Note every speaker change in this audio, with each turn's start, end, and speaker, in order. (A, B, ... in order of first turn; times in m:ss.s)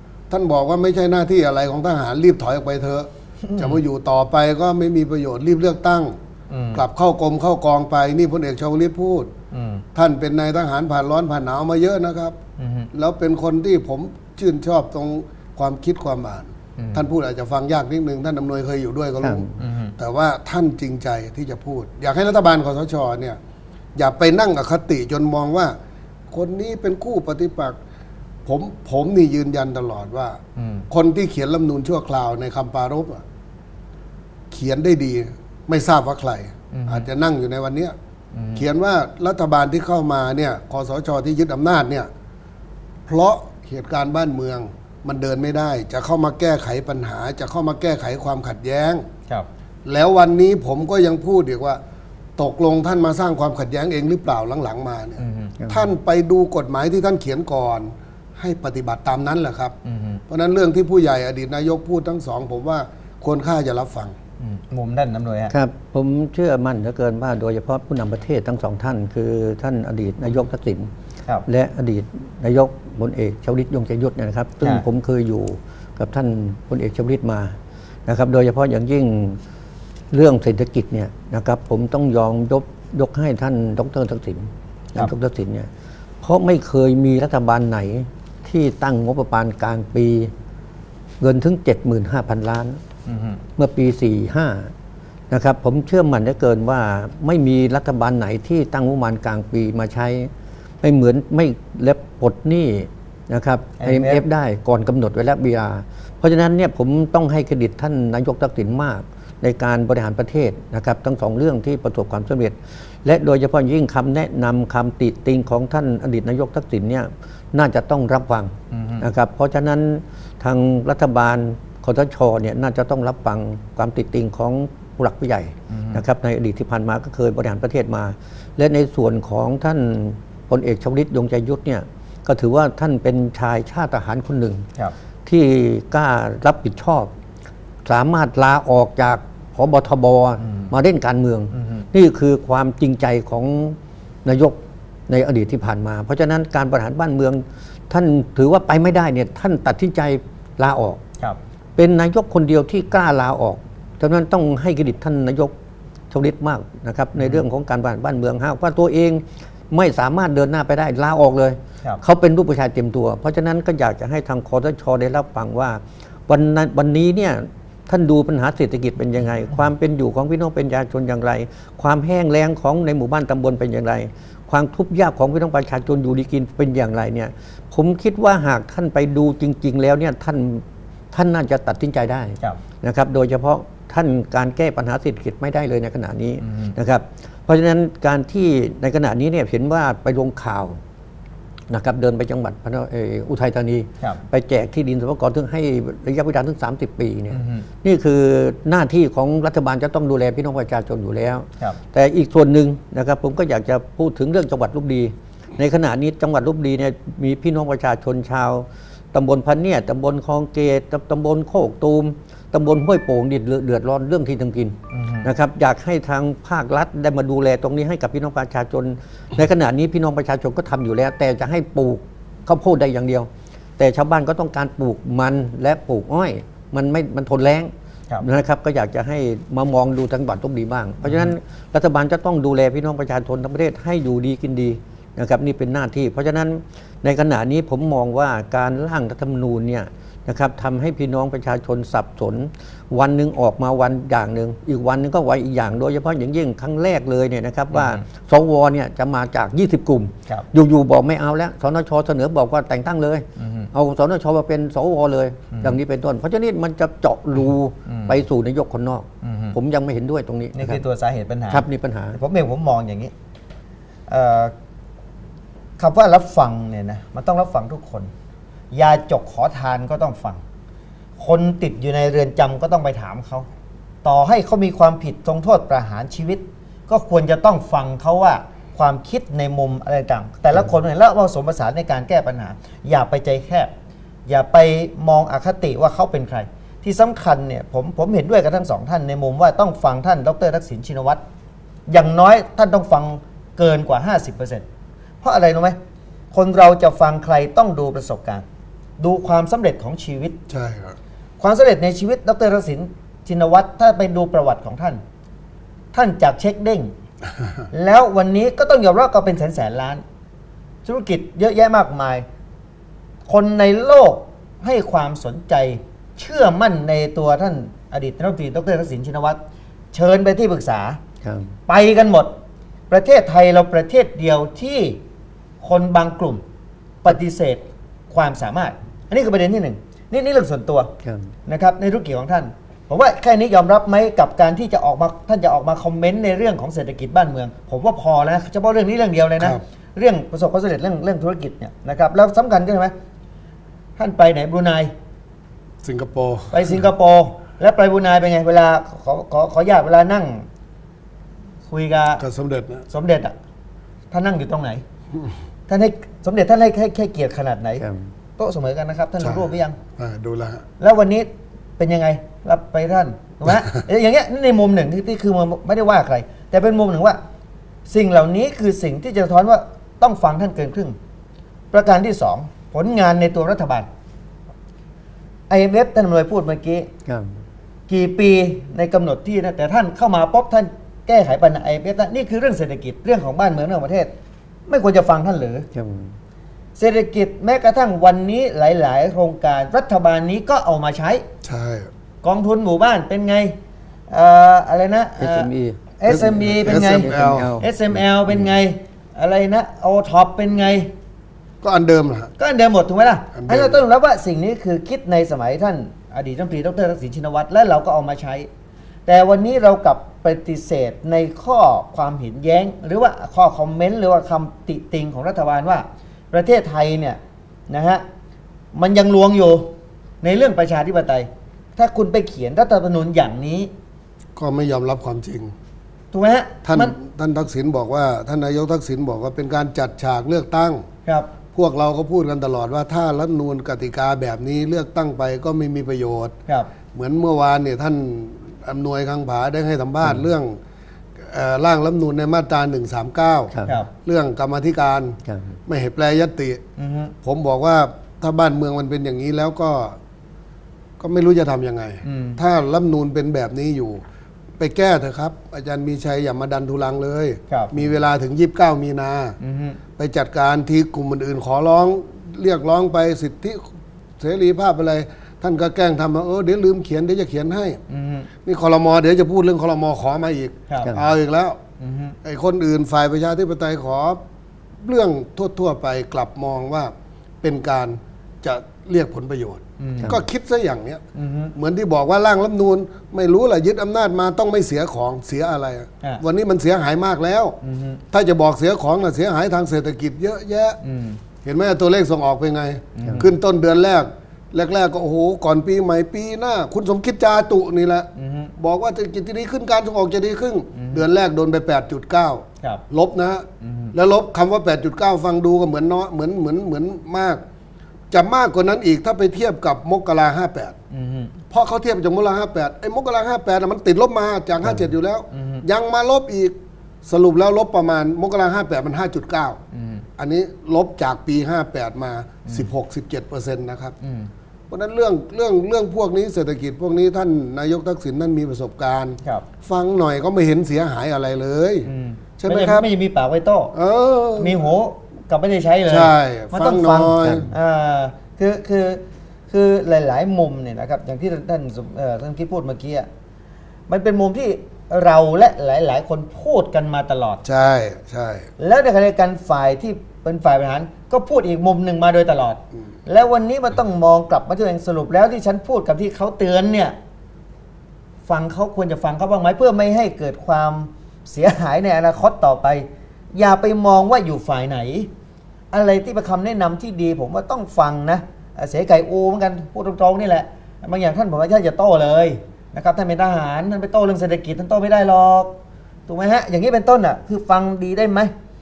0:00.3-0:06.2 A
0:03.5-0:03.8 B
0:06.5-0:06.8 B
0:06.7-0:09.3 A
0:09.5-0:09.8 B
0:10.0-0:12.4 A
0:12.6-0:12.9 B
0:12.9-0:23.4 A
0:19.2-0:19.5 C
0:19.6-0:19.9 B
0:24.0-0:25.8 A
0:26.3-0:27.8 A
0:28.5-0:33.2 A
0:30.6-0:30.8 B
0:34.5-0:37.9 A
0:36.7-0:37.1 B
0:38.4-0:38.7 B
0:38.6-0:42.1 A
0:43.1-0:49.1 A
0:49.8-0:51.8 A
0:52.4-0:59.8 A
0:55.2-0:55.6 B
0:55.6-0:55.8 C
0:59.8-1:00.2 B
1:00.3-1:04.2 A
1:04.4-1:05.5 B
1:05.5-1:10.9 C
1:11.5-1:19.4 C
1:20.1-1:25.7 C
1:26.2-1:30.3 C
1:31.2-1:32.8 C
1:33.1-1:33.4 B
1:33.6-1:34.7 C
1:35.3-1:40.3 C
1:40.8-2:14.6 C
1:43.8-1:44.2 B
1:58.7-1:59.0 B
2:05.7-2:06.0 B
2:15.2-2:17.1 C
2:17.8-2:31.0 C
2:20.4-2:20.7 B
2:21.5-2:21.9 B
2:31.8-2:35.5 C
2:36.1-3:10.8 C
3:06.4-3:06.7 B
3:11.7-4:20.8 C
3:17.3-3:17.7 B
3:34.9-3:35.3 B
3:51.0-3:51.3 B
4:07.7-4:08.0 B
4:13.4-4:13.7 B
4:15.5-4:15.8 B
4:17.9-4:18.2 B
4:19.2-4:19.6 B
4:20.5-4:23.1 B
4:21.5-4:22.2 C
4:24.1-4:24.5 B
4:25.8-4:28.1 B
4:28.7-4:30.4 B
4:31.2-4:33.5 B
4:34.0-4:43.7 B
4:44.3-4:51.2 B
4:51.9-4:54.6 B
4:55.2-4:55.8 B
4:56.3-4:58.4 B
4:59.0-5:00.4 B
5:00.5-5:01.0 A
5:01.4-5:05.0 B
5:05.9-5:06.9 B
5:07.7-5:10.0 B
5:10.8-5:12.3 B
5:13.3-5:19.4 B
5:19.9-5:21.0 B
5:21.2-5:21.5 C
5:21.7-5:22.3 B
5:22.9-5:25.0 B
5:25.6-5:26.4 B
5:27.0-5:30.9 B
5:31.0-5:31.3 C
5:31.5-5:42.9 B
5:44.0-5:44.9 B
5:45.8-5:46.8 A
5:46.5-5:50.5 B
5:51.7-5:52.2 B
5:52.2-5:52.8 A
5:52.9-5:53.4 B
5:54.1-5:54.8 B
5:55.7-5:57.8 B
5:57.8-5:58.1 C
5:58.4-5:59.8 B
5:59.2-6:00.7 A
6:00.8-6:07.2 B
6:07.9-6:11.0 B
6:11.7-6:13.9 B
6:15.5-6:16.9 B
6:17.1-6:17.4 C
6:17.9-6:24.1 B
6:24.7-6:25.7 B
6:25.7-6:26.2 C
6:26.8-6:31.2 B
6:31.4-6:31.9 A
6:32.2-6:33.6 B
6:34.1-6:35.5 B
6:35.2-6:35.8 C
6:36.0-6:40.9 B
6:36.1-6:37.5 A
6:36.4-6:38.0 C
6:41.6-6:42.3 A
6:42.4-6:48.5 B
6:43.4-6:43.8 A
6:49.1-6:58.0 B
6:58.7-7:03.7 B
7:04.4-7:05.5 A
7:06.1-7:07.0 B
7:06.7-7:10.8 A
7:11.1-7:11.3 B
7:11.5-7:16.4 A
7:16.9-7:20.6 A
7:21.2-7:26.6 A
7:23.5-7:23.8 C
7:25.3-7:25.6 C
7:26.8-7:27.1 B
7:27.2-7:30.0 A
7:31.0-7:34.0 A
7:32.0-7:32.4 B
7:34.6-7:39.4 A
7:39.4-7:39.8 B
7:40.0-7:43.6 A
7:44.2-7:47.8 A
7:47.9-7:48.3 B
7:48.4-7:51.6 A
7:51.8-7:52.2 B
7:52.2-7:54.2 A
7:54.8-8:01.0 A
7:59.8-8:00.1 B
8:01.2-8:01.5 B
8:01.6-8:07.6 A
8:07.6-8:08.0 B
8:08.1-8:10.8 A
8:10.8-8:11.2 B
8:11.4-8:27.4 A
8:13.0-8:13.3 B
8:18.2-8:18.5 B
8:20.8-8:21.0 B
8:23.6-8:23.9 B
8:28.1-8:30.8 A
8:30.9-8:31.3 B
8:31.5-8:39.6 A
8:35.3-8:35.6 B
8:39.7-8:40.0 B
8:40.2-8:44.0 A
8:44.0-8:44.3 B
8:44.7-8:52.9 A
8:51.9-8:53.7 B
8:53.7-8:54.6 A
8:54.4-9:03.1 B
8:55.9-8:57.5 A
8:57.2-8:57.5 C
9:03.9-9:07.4 B
9:07.4-9:08.5 A
9:08.6-9:17.0 B
9:18.3-9:25.1 B
9:25.7-9:35.6 B
9:36.1-9:38.3 B